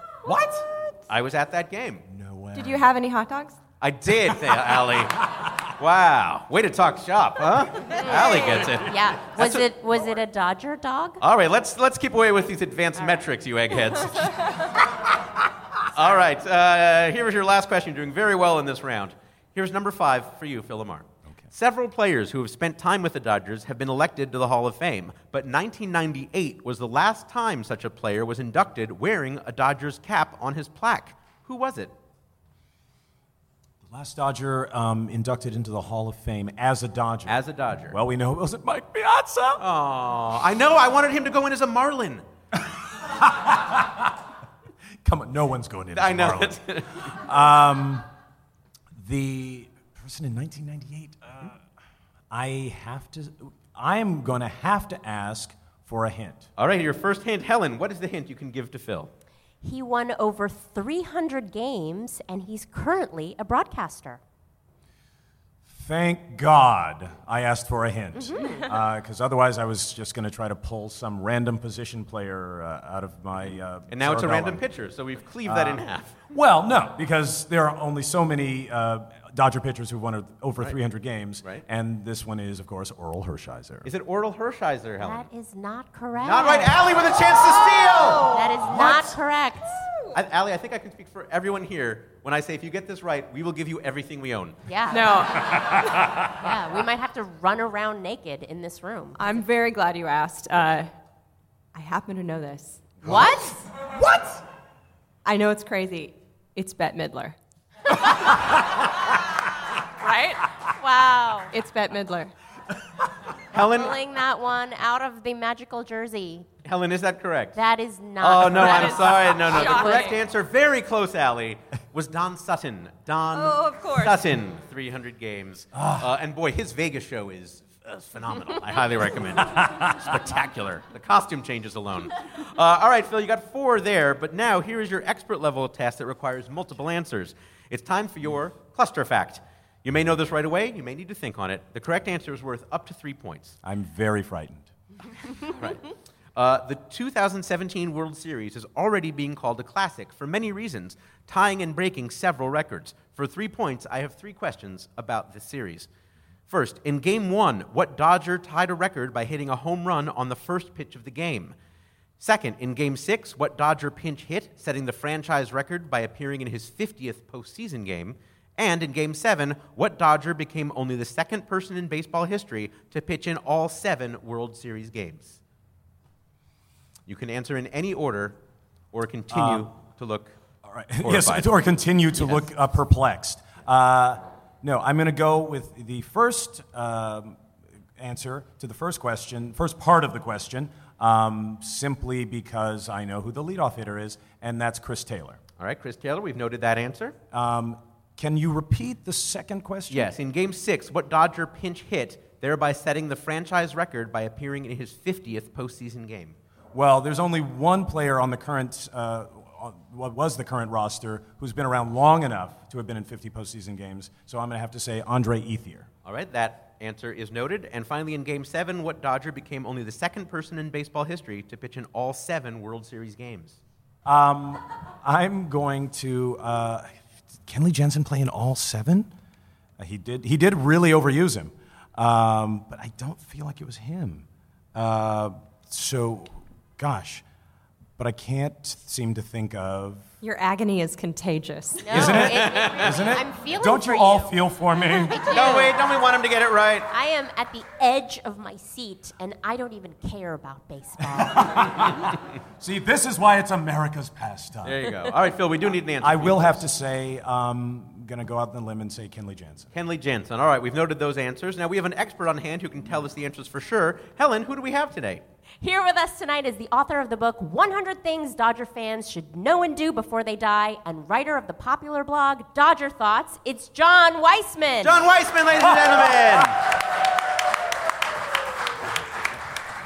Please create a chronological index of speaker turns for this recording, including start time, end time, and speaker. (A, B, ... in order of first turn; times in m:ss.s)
0:00.2-0:00.7 A
0:01.1-0:02.0 B
0:02.1-0:02.9 A
0:02.5-0:03.6 C
0:03.8-0:05.2 B
0:05.8-0:09.6 B
0:07.9-0:11.2 D
0:11.2-0:14.6 B
0:15.9-0:31.9 B
0:33.8-0:37.4 A
0:37.3-0:38.0 B
0:37.9-0:39.6 A
0:39.6-0:42.2 B
0:42.6-0:44.1 A
0:45.0-0:48.0 A
0:46.0-0:47.1 B
0:49.0-0:51.6 A
0:52.3-0:56.5 A
0:56.6-0:59.1 B
0:59.6-1:04.2 D
1:05.7-1:14.6 A
1:08.2-1:08.6 D
1:13.9-1:16.1 B
1:15.5-1:23.9 A
1:23.8-1:25.3 B
1:25.0-1:26.8 D
1:26.2-1:29.1 B
1:28.2-1:29.8 D
1:30.1-1:34.6 B
1:34.7-1:35.4 D
1:34.9-1:35.4 C
1:36.3-1:39.4 D
1:39.2-1:40.9 C
1:41.7-1:43.0 C
1:43.0-1:43.6 D
1:44.0-1:44.4 A
1:45.2-1:47.4 C
1:50.0-1:50.4 C
1:50.7-1:51.5 D
1:51.5-1:52.3 C
1:53.5-1:53.9 B
1:53.6-1:56.5 D
1:56.6-1:57.6 B
1:57.6-2:00.1 D
1:58.2-2:23.6 B
1:58.6-2:00.1 C
2:03.4-2:04.2 C
2:05.8-2:06.1 A
2:23.6-2:24.7 A
2:25.6-2:25.8 B
2:26.4-2:35.9 B
2:36.5-2:41.6 B
2:42.2-2:55.4 B
2:57.1-2:58.4 B
2:58.9-3:00.4 B
2:59.3-2:59.7 A
3:00.6-3:07.4 A
3:01.0-3:01.5 B
3:02.2-3:02.5 B
3:08.0-3:15.4 A
3:15.6-3:17.2 B
3:17.3-3:20.1 A
3:19.9-3:26.4 B
3:26.7-3:35.9 A
3:36.0-3:43.6 B
3:44.1-3:49.1 A
3:49.8-3:57.2 A
3:58.0-4:00.1 A
4:00.2-4:01.9 C
4:01.8-4:04.4 D
4:01.9-4:05.2 A
4:02.0-4:03.1 B
4:04.9-4:05.7 D
4:05.3-4:06.9 B
4:06.9-4:11.9 D
4:11.0-4:14.8 A
4:14.6-4:16.6 B
4:16.0-4:19.7 A
4:19.7-4:25.2 B
4:25.6-4:35.0 D
4:34.8-4:36.6 B